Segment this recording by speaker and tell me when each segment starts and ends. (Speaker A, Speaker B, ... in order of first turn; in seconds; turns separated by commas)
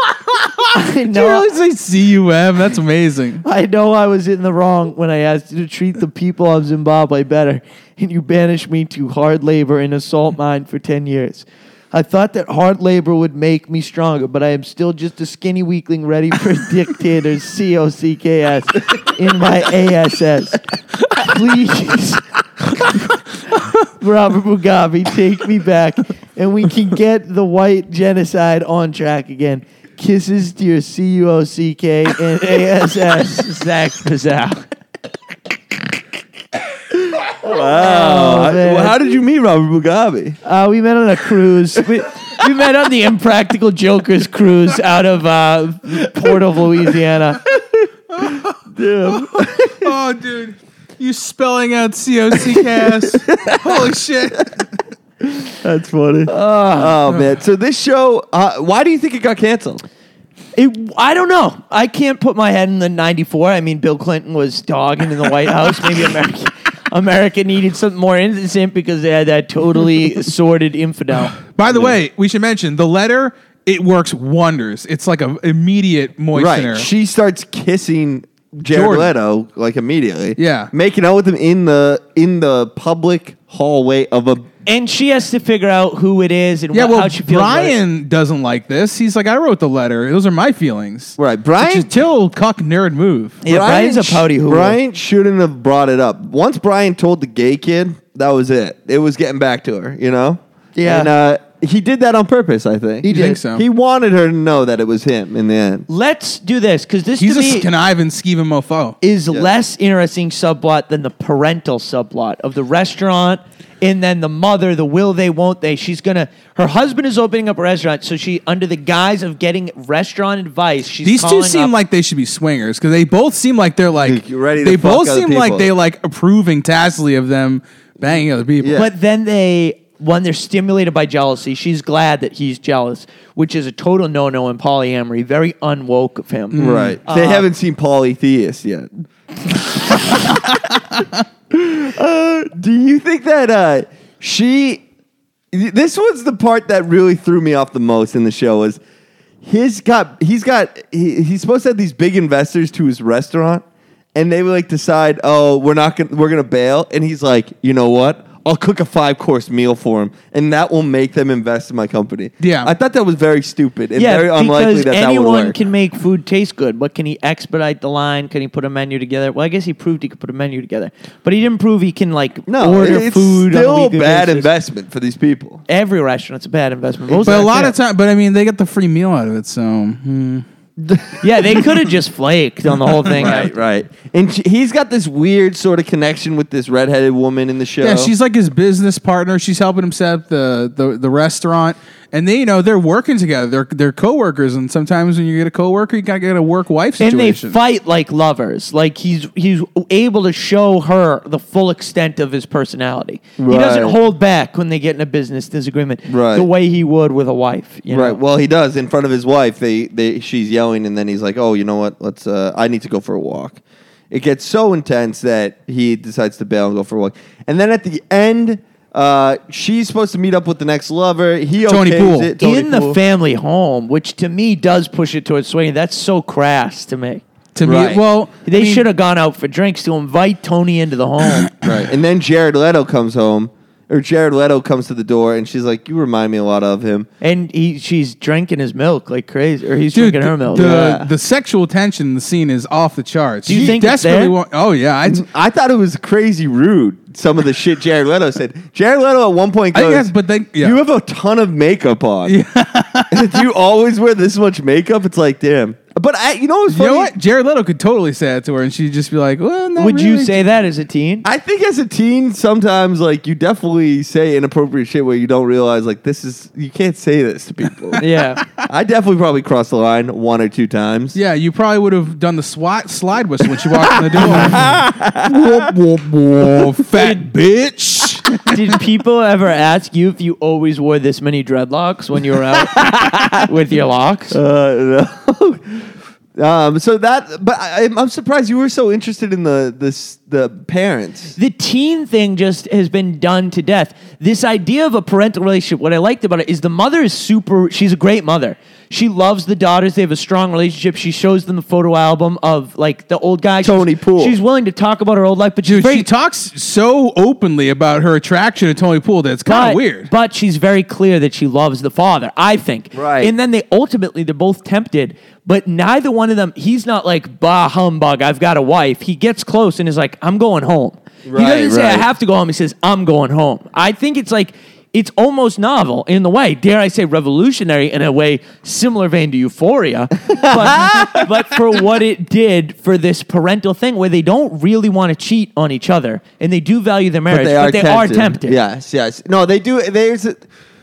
Speaker A: 0.3-3.4, Speaker B: 0.7-1.5, Speaker B: 3.4-23.0, Speaker B: 23.5-34.6, Speaker C: 36.9-40.4, Speaker B: 37.4-38.9, Speaker B: 40.4-47.4, Speaker A: 48.1-48.5, Speaker C: 48.2-49.9, Speaker A: 49.1-54.6, Speaker C: 52.4-54.5, Speaker C: 55.2-59.8, Speaker B: 56.3-57.0, Speaker B: 60.6-71.4, Speaker A: 71.3-76.9, Speaker C: 71.7-72.0, Speaker C: 76.3-84.5, Speaker A: 78.7-79.1, Speaker A: 80.4-80.7, Speaker B: 84.7-87.8, Speaker A: 86.7-93.4, Speaker C: 91.2-91.9, Speaker B: 93.4-94.8, Speaker C: 93.5-105.9, Speaker B: 100.8-101.1, Speaker B: 103.0-103.4, Speaker A: 103.1-103.6, Speaker B: 105.9-107.7, Speaker A: 107.2-109.0, Speaker B: 109.0-121.7, Speaker A: 121.0-128.8, Speaker C: 124.0-125.7, Speaker C: 128.6-128.9, Speaker B: 128.8-137.5, Speaker A: 136.5-137.0, Speaker C: 136.6-138.9, Speaker C: 139.4-140.8, Speaker C: 141.5-144.8, Speaker C: 145.5-148.8, Speaker C: 149.4-153.6, Speaker C: 154.2-165.6, Speaker A: 162.4-162.7, Speaker B: 164.0-174.5, Speaker C: 172.5-175.6, Speaker B: 175.7-177.8, Speaker A: 177.3-180.4, Speaker C: 180.8-181.7, Speaker B: 181.2-183.5, Speaker C: 183.2-188.1, Speaker A: 187.8-197.6, Speaker B: 197.0-208.2, Speaker C: 203.4-204.0, Speaker C: 206.1-206.5, Speaker C: 207.9-223.0, Speaker A: 221.7-222.3, Speaker B: 222.4-227.2, Speaker A: 227.6-228.9, Speaker C: 227.6-228.0, Speaker B: 228.4-231.5, Speaker C: 231.6-237.1, Speaker B: 237.2-240.7, Speaker A: 239.9-245.2, Speaker C: 240.6-241.1, Speaker B: 243.5-244.3, Speaker C: 243.5-243.8, Speaker C: 245.1-252.4, Speaker A: 249.7-250.8, Speaker A: 252.3-253.3, Speaker C: 253.1-257.1, Speaker A: 256.7-260.4, Speaker B: 259.8-261.3, Speaker C: 261.2-268.0, Speaker B: 268.0-268.4, Speaker C: 268.7-271.2, Speaker A: 271.1-278.6, Speaker C: 273.7-276.9, Speaker B: 278.5-284.4, Speaker C: 282.6-283.5, Speaker C: 284.3-291.4, Speaker B: 291.4-306.1, Speaker C: 303.6-304.4, Speaker A: 305.6-310.1, Speaker B: 309.5-338.6, Speaker C: 312.9-313.3, Speaker C: 321.3-322.1, Speaker C: 330.3-331.3, Speaker C: 337.3-340.4